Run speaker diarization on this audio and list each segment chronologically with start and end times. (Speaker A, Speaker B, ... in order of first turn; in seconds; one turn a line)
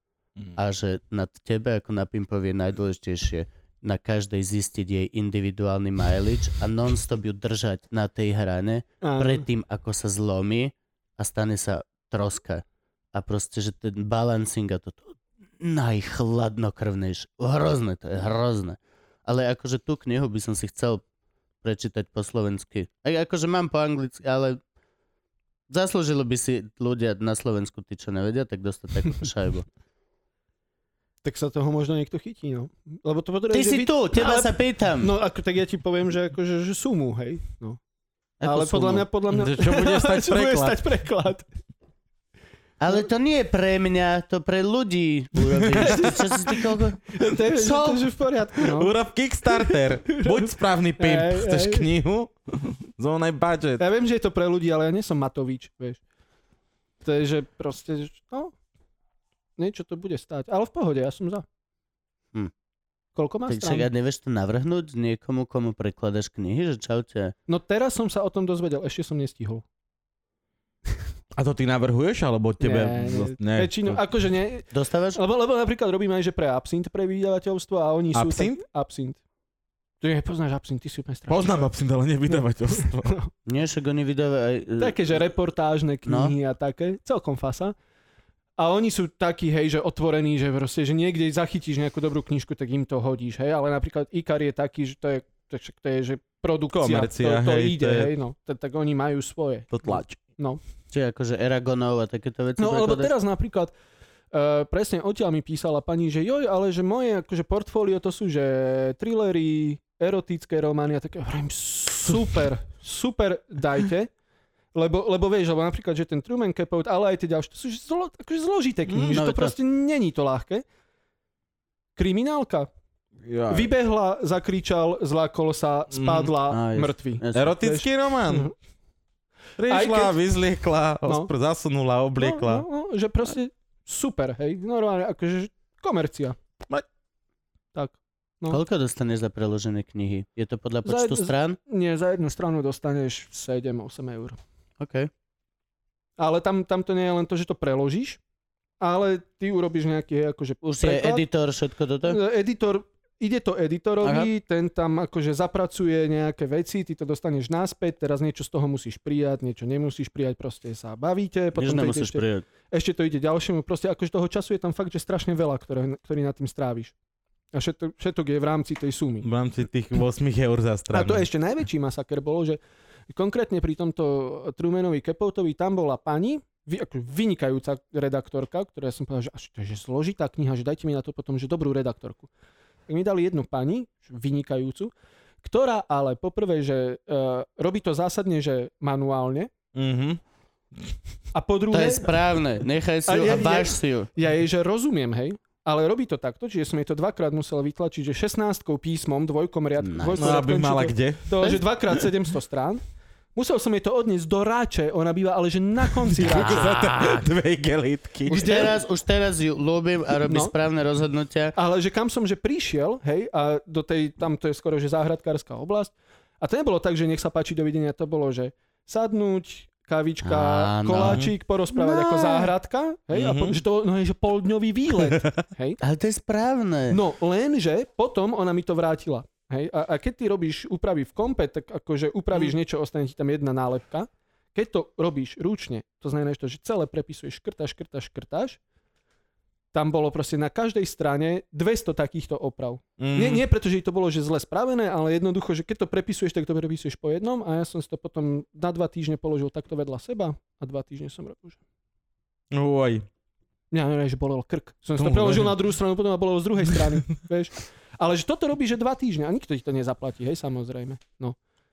Speaker A: 0.6-21.0
Speaker B: 9.0-9.4
Speaker A: 21.6-24.6
Speaker A: 25.7-29.7
Speaker B: 31.2-37.8
Speaker A: 33.5-35.1
Speaker A: 38.4-39.1
Speaker B: 38.5-41.5
Speaker C: 39.3-40.8
Speaker A: 42.8-48.1
Speaker C: 45.7-46.1
Speaker B: 45.8-46.6
Speaker B: 47.1-48.9
Speaker C: 48.6-53.8
Speaker B: 49.5-51.9
Speaker B: 53.8-56.0
Speaker B: 57.0-58.5
Speaker B: 59.6-61.5
Speaker B: 63.1-63.9
Speaker A: 63.5-67.3
Speaker B: 67.5-69.6
Speaker C: 71.3-74.0
Speaker B: 72.6-79.2
Speaker A: 74.7-75.2
Speaker C: 78.1-78.6
Speaker B: 80.0-81.7
Speaker C: 81.3-83.2
Speaker B: 82.8-83.3
Speaker A: 83.5-85.1
Speaker B: 84.8-87.8
Speaker A: 86.1-86.3
Speaker B: 88.6-100.6
Speaker C: 96.8-98.1
Speaker C: 99.7-100.2
Speaker A: 100.9-103.1
Speaker B: 102.6-103.7
Speaker B: 104.3-114.1
Speaker B: 114.7-120.7
Speaker C: 118.9-119.2
Speaker A: 119.1-119.5
Speaker B: 122.0-122.7
Speaker C: 123.2-123.7
Speaker B: 123.5-128.5
Speaker C: 125.9-126.3
Speaker A: 126.5-127.5
Speaker C: 127.3-128.5
Speaker C: 129.6-132.7
Speaker B: 129.7-130.2
Speaker B: 131.1-131.3
Speaker B: 132.2-136.4
Speaker B: 137.7-138.6
Speaker A: 138.5-141.6
Speaker B: 140.8-144.4
Speaker A: 144.8-145.1
Speaker B: 146.2-148.2
Speaker B: 148.8-151.2
Speaker A: 150.6-152.2
Speaker B: 152.1-166.9
Speaker A: 154.0-154.3
Speaker A: 161.6-162.4
Speaker B: 167.5-169.3
Speaker C: 169.2-171.3
Speaker B: 170.9-172.6
Speaker B: 173.1-182.3
Speaker B: 182.9-184.9
Speaker B: 185.4-189.5
Speaker C: 189.8-190.2
Speaker B: 191.3-192.1
Speaker A: 191.7-194.1
Speaker B: 193.1-202.8
Speaker A: 199.8-200.3
Speaker C: 200.2-201.6
Speaker B: 203.3-206.8
Speaker C: 206.0-208.7
Speaker A: 206.3-207.2
Speaker B: 208.3-208.8
Speaker A: 208.3-211.6
Speaker B: 210.3-210.5
Speaker B: 211.6-225.8
Speaker A: 220.2-222.5
Speaker C: 221.0-221.3
Speaker C: 223.1-223.6
Speaker C: 225.1-225.4
Speaker A: 225.8-227.0
Speaker B: 226.9-238.6
Speaker B: 239.7-251.6
Speaker C: 243.0-243.4
Speaker C: 252.5-253.1
Speaker B: 253.7-261.4
Speaker C: 255.0-255.6